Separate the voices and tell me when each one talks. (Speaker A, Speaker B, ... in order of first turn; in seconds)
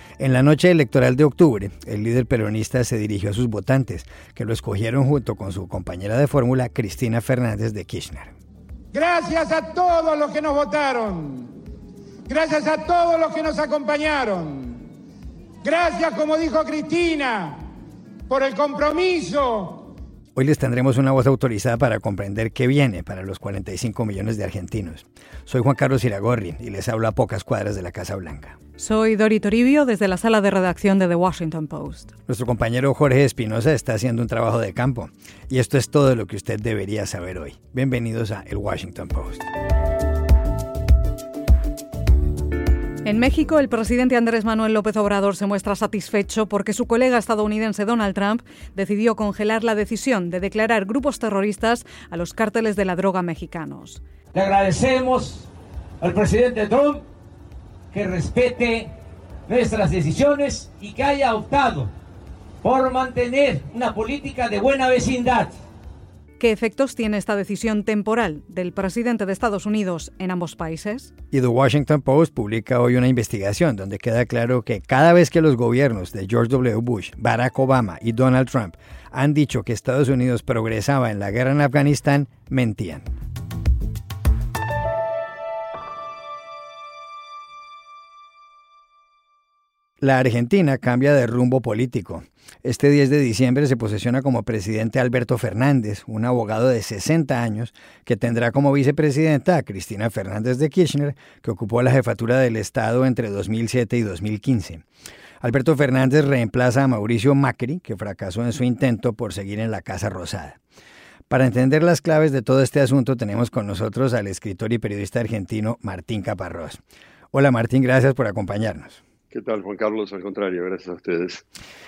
Speaker A: 0.2-8.3, 20.3-28.6, 32.3-39.5, 71.3-83.1, 90.0-104.8, 105.4-110.6, 111.3-116.8, 117.3-119.0
Speaker B: 8.9-11.4, 12.3-14.6, 15.6-17.6, 18.3-19.8
Speaker C: 28.8-32.1, 43.0-54.0, 66.4-71.1
Speaker D: 54.3-55.5, 56.0-57.0, 57.9-58.9, 59.5-61.9, 62.6-65.5
Speaker E: 119.3-121.4